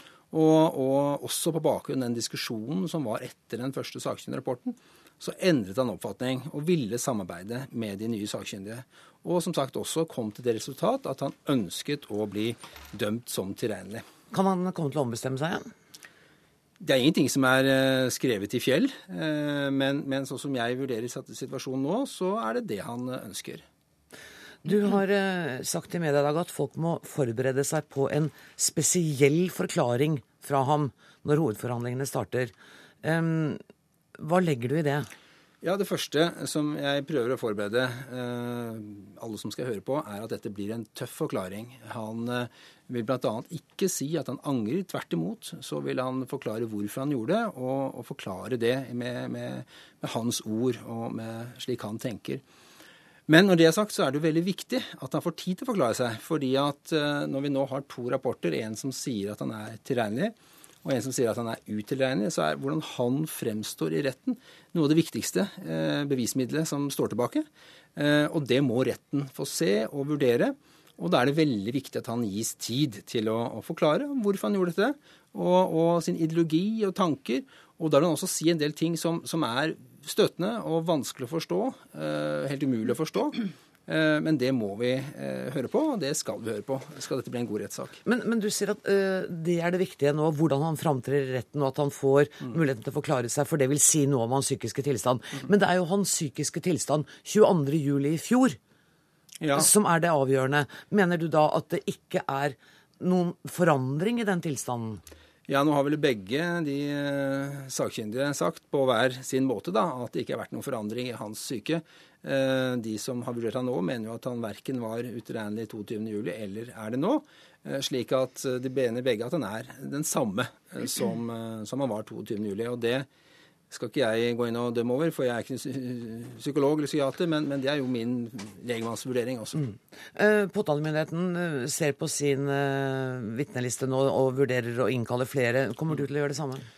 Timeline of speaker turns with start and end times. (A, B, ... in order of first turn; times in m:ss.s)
0:00.3-0:14.0 A
0:14.3-0:15.7 B
0:16.8-0:23.6 A
0:24.6-0:33.6 B
0:34.2-0:35.1 B
0:35.6-0:52.4 A
0:53.3-1:28.0 A
1:28.0-1:38.6 B
1:39.4-1:39.7 A
1:39.5-1:45.0 B
1:45.5-2:03.1 A
2:03.7-2:09.6 A
2:10.1-2:16.6 B